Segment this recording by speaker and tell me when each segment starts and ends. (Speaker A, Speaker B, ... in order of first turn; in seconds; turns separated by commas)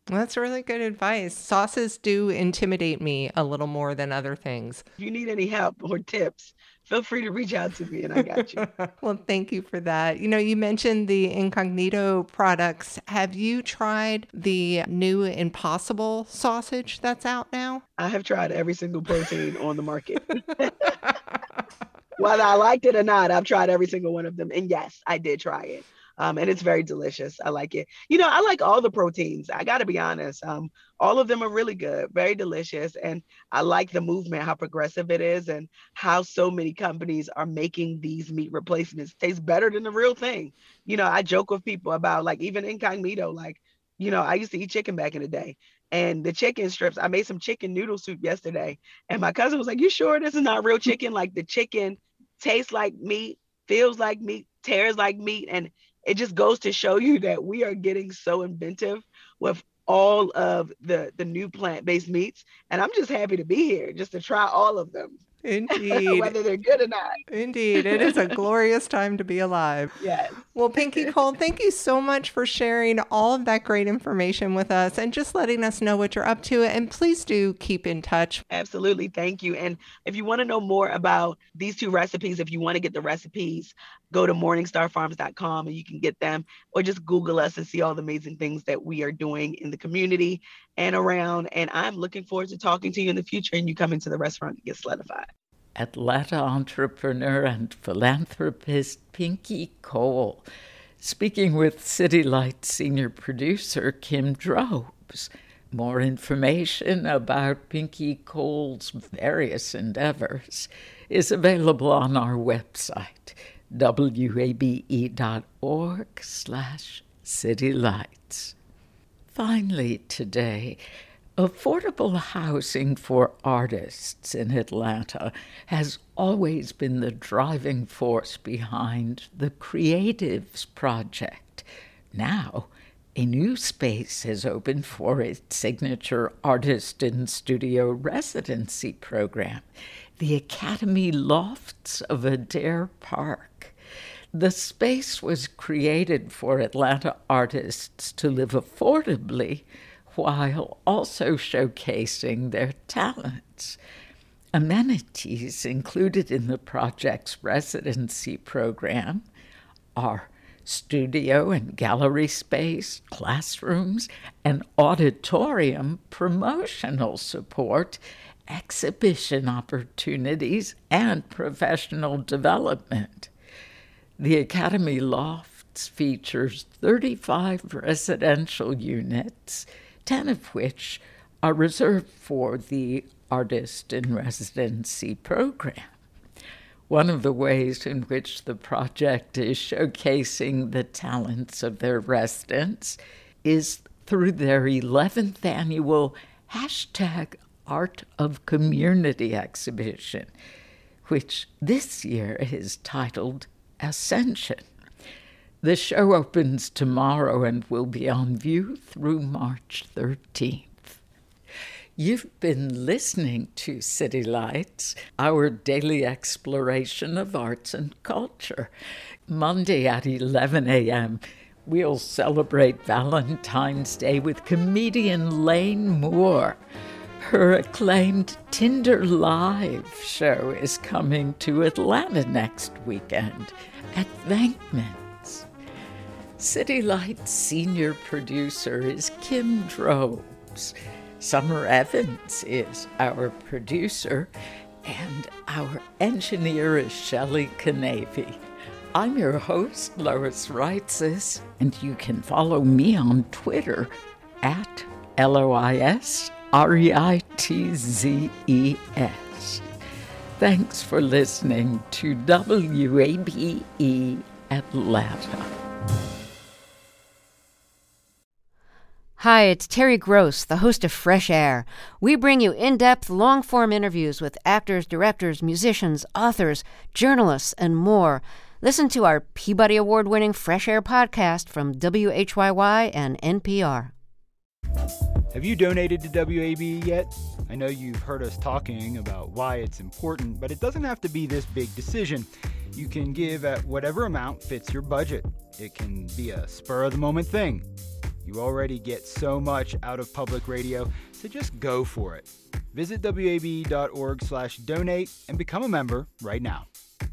Speaker A: 0.1-4.8, Speaker B: 5.0-8.7, Speaker A: 8.4-17.8, Speaker B: 18.0-20.9, Speaker B: 22.2-65.2, Speaker A: 65.4-66.3, Speaker B: 65.7-67.2, Speaker A: 67.3-69.9, Speaker B: 67.8-68.3, Speaker B: 70.0-71.2, Speaker A: 70.5-78.4, Speaker B: 78.5-95.3, Speaker C: 95.8-100.5, Speaker C: 101.0-118.5, Speaker C: 119.3-120.8, Speaker C: 121.4-139.7, Speaker C: 140.2-143.8, Speaker C: 144.3-153.8, Speaker C: 154.5-159.3, Speaker C: 159.9-173.3, Speaker C: 174.2-185.9, Speaker C: 186.9-200.3, Speaker C: 201.1-204.7, Speaker C: 205.6-211.0, Speaker C: 212.0-218.7, Speaker C: 219.3-226.6, Speaker C: 227.2-235.5, Speaker C: 236.4-244.3, Speaker C: 244.8-248.4, Speaker C: 248.9-259.6, Speaker C: 260.4-265.6, Speaker D: 269.2-283.9, Speaker E: 285.3-297.7, Speaker E: 298.2-306.7